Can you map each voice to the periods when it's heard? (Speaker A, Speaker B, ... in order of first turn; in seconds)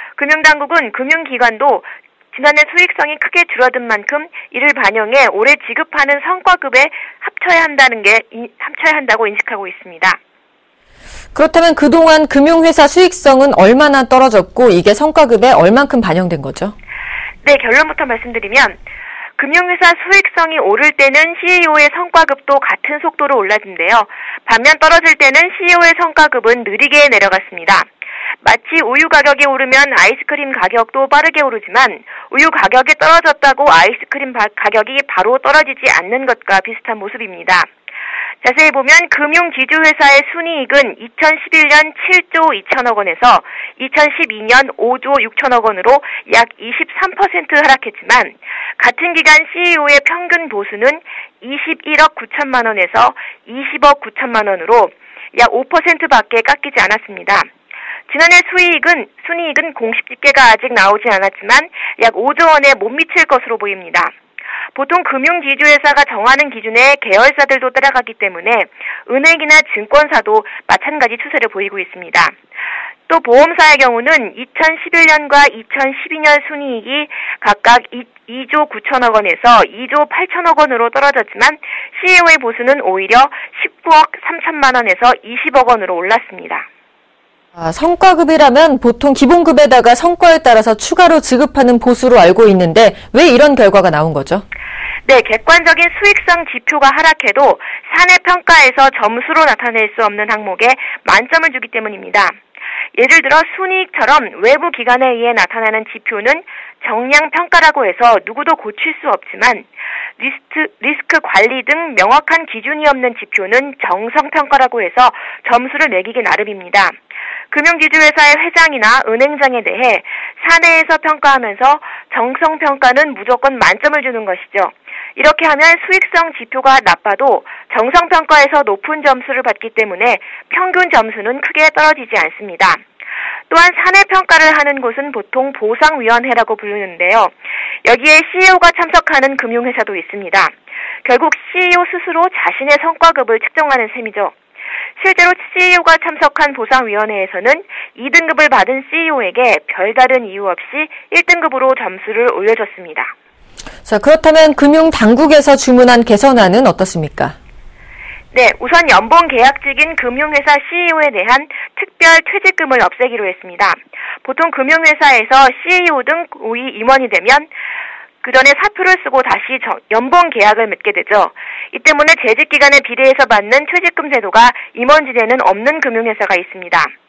Speaker A: 0.2-10.2, 17.4-18.8, 19.4-27.9, 28.4-37.7, 38.4-57.5, 58.1-64.1, 64.7-72.4, 73.1-86.7, 95.0-102.4, 102.9-117.0, 117.5-132.8, 133.5-144.3, 145.0-153.1, 158.3-167.5, 168.2-176.9
Speaker B: 11.3-16.7, 87.5-94.4, 153.8-157.3